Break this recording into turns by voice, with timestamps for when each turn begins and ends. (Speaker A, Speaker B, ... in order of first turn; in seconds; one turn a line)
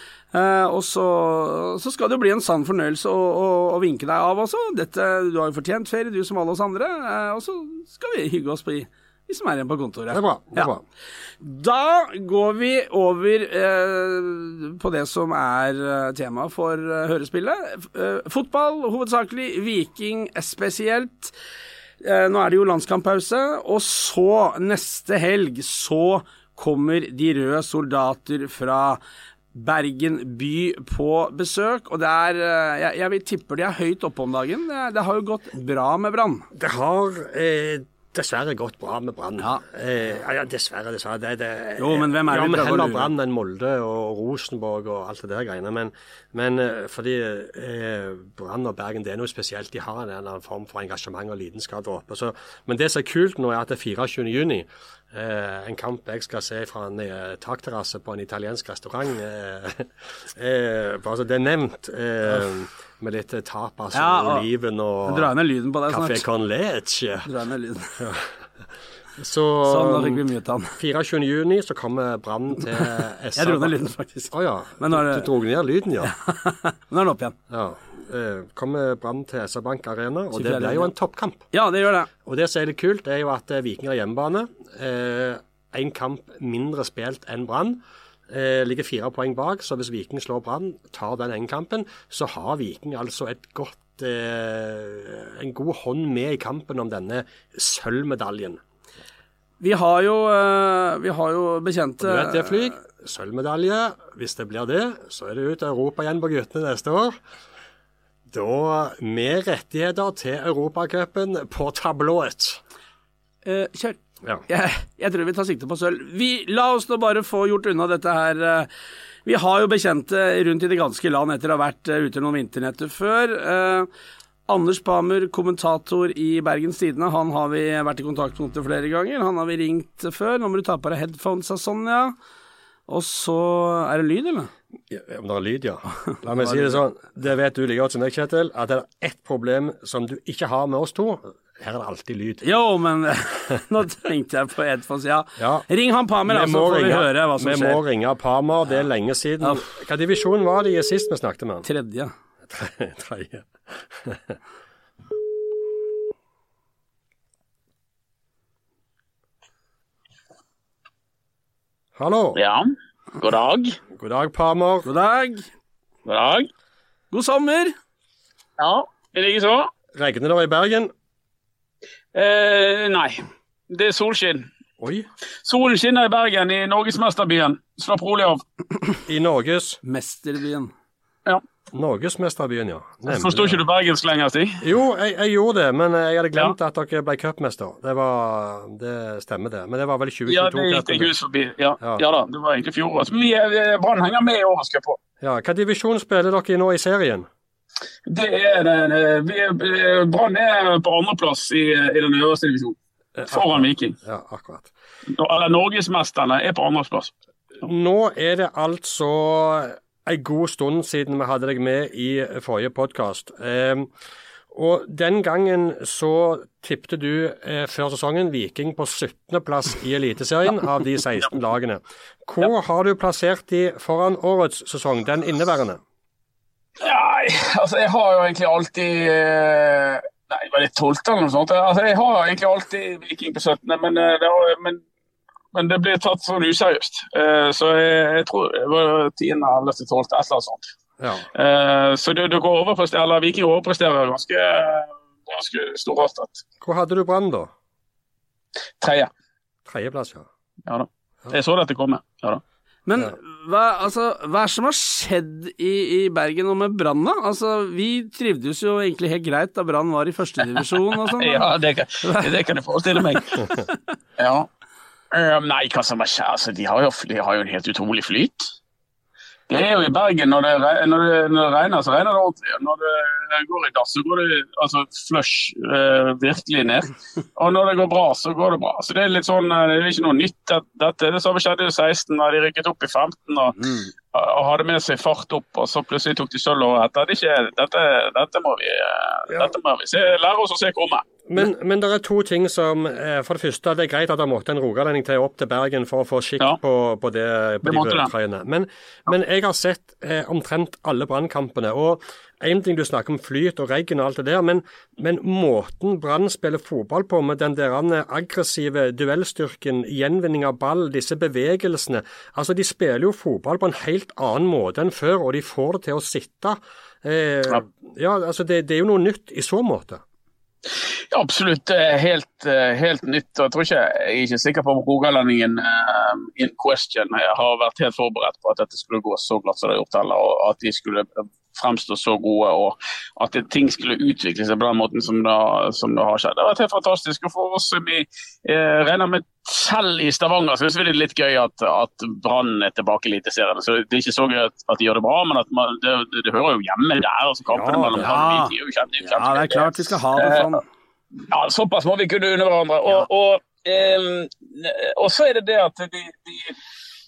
Speaker A: 0.3-10.7
Speaker B: 10.1-10.8
Speaker A: 11.4-21.3
Speaker A: 22.0-29.0
Speaker A: 29.5-36.5
Speaker B: 36.5-65.3
Speaker A: 41.8-43.1
Speaker A: 63.9-64.5
Speaker A: 65.1-66.2
Speaker B: 65.9-67.3
Speaker A: 67.2-68.0
Speaker B: 68.0-68.4
Speaker B: 69.2-70.2
Speaker A: 69.6-70.8
Speaker B: 70.8-73.8
Speaker A: 72.8-75.3
Speaker B: 74.3-76.1
Speaker A: 76.0-77.4
Speaker B: 77.5-81.4
Speaker A: 80.3-80.9
Speaker A: 81.5-82.1
Speaker B: 82.2-98.6
Speaker A: 99.6-102.7
Speaker B: 102.0-107.2
Speaker B: 108.3-112.6
Speaker A: 113.4-118.7
Speaker A: 119.2-123.9
Speaker A: 124.5-132.1
Speaker A: 132.9-134.5
Speaker B: 134.9-142.4
Speaker A: 136.3-136.8
Speaker A: 142.4-147.8
Speaker B: 145.4-145.7
Speaker B: 146.2-151.7
Speaker A: 151.6-152.1
Speaker B: 152.5-154.4
Speaker B: 161.9-162.4
Speaker C: 162.4-163.8
Speaker B: 163.9-164.9
Speaker A: 164.8-165.5
Speaker C: 166.1-166.5
Speaker A: 167.1-167.7
Speaker C: 168.6-169.7
Speaker B: 169.9-170.9
Speaker C: 172.1-174.5
Speaker B: 174.8-175.1
Speaker C: 175.4-178.4
Speaker B: 179.1-179.8
Speaker A: 179.8-180.7
Speaker B: 181.7-183.6
Speaker C: 183.1-184.6
Speaker B: 184.6-191.1
Speaker C: 190.2-195.0
Speaker B: 195.2-197.3
Speaker C: 198.1-202.8
Speaker B: 203.2-204.7
Speaker C: 203.3-204.0
Speaker C: 205.1-207.1
Speaker B: 207.6-213.9
Speaker B: 214.5-225.8
Speaker C: 226.8-234.8
Speaker C: 235.5-240.7
Speaker B: 241.0-241.3
Speaker C: 241.3-246.4
Speaker B: 246.6-247.5
Speaker C: 248.8-249.1
Speaker B: 249.7-250.3
Speaker C: 250.7-252.4
Speaker A: 252.9-261.5
Speaker C: 261.1-263.5
Speaker A: 262.0-262.3
Speaker C: 264.2-264.5
Speaker C: 265.1-268.5
Speaker C: 269.5-283.6
Speaker A: 283.6-283.9
Speaker C: 284.1-291.2
Speaker B: 291.3-320.0
Speaker C: 297.6-298.1
Speaker C: 321.1-350.5
Speaker B: 347.5-348.1
Speaker A: 348.0-350.6
Speaker C: 351.3-356.5